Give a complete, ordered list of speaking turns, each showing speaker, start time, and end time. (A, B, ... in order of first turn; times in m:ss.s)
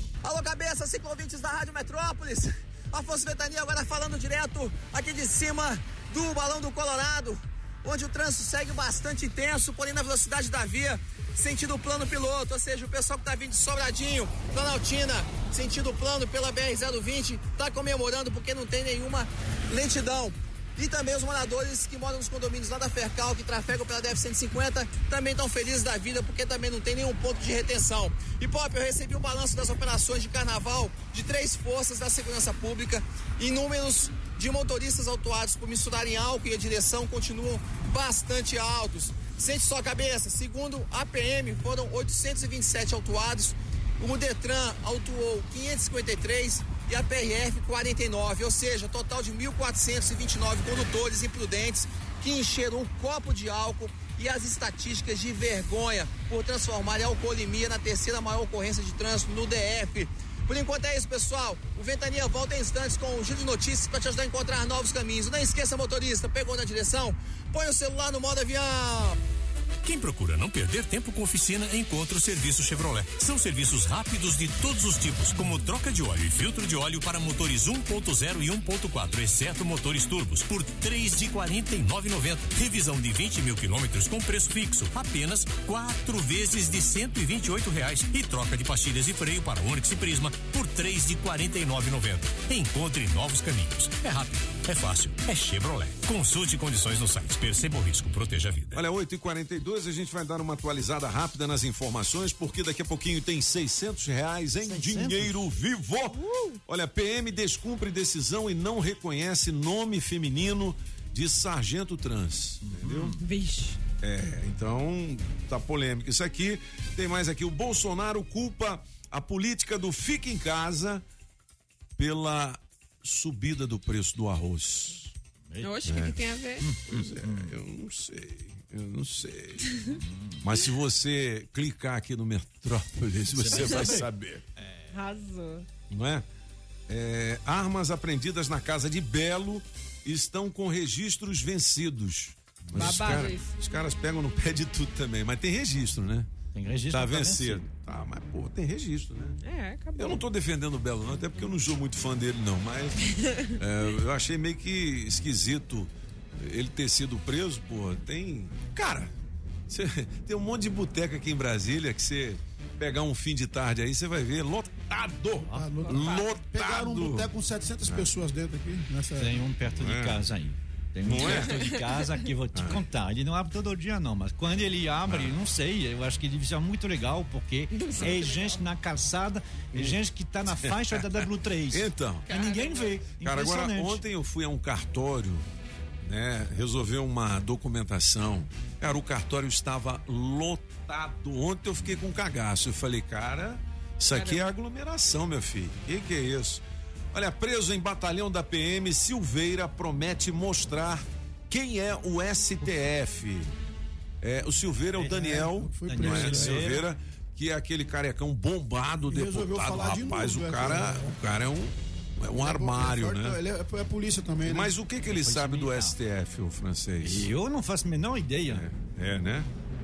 0:00.2-1:09.2 A
1:09.8-1:38.8 B
1:38.7-1:53.1 C
1:44.6-1:45.4 D
1:52.6-1:53.2 D
1:53.2-1:53.8 E
1:54.0-2:01.0 C
2:02.0-2:05.1 C
2:05.5-2:06.0 D
2:05.6-2:06.6 E
2:05.8-2:06.2 C
2:06.6-2:07.5 D
2:06.9-2:09.7 C
2:10.0-2:10.4 D
2:10.4-2:14.4 C
2:13.4-2:14.1 D
2:13.5-2:13.8 E
2:14.9-2:15.6 E
2:15.9-2:16.2 C
2:16.9-2:26.3 C
2:22.7-2:23.1 D
2:22.7-2:23.5 E
2:26.5-2:27.6 D
2:26.9-2:29.4 C
2:29.4-2:30.2 E
2:29.9-2:39.1 C
2:39.7-2:47.3 C
2:45.4-2:49.3 F
2:49.2-3:04.0 D
2:49.7-2:50.2 C
2:51.0-2:51.5 C
2:52.5-2:52.8 C
2:57.7-2:58.6 E
2:59.7-3:00.0 C
3:00.5-3:01.0 C
3:01.7-3:02.3 C
3:02.3-3:02.9 E
3:03.1-3:05.4 C
3:06.0-3:16.6 C
3:17.1-3:23.5 C
3:24.2-3:33.4 C
3:25.0-3:26.8 D
3:25.3-3:26.7 F
3:29.1-3:31.1 F
3:32.3-3:34.7 F
3:34.4-3:37.3 C
3:35.2-3:36.0 D
3:37.0-3:38.6 D
3:38.5-3:39.5 C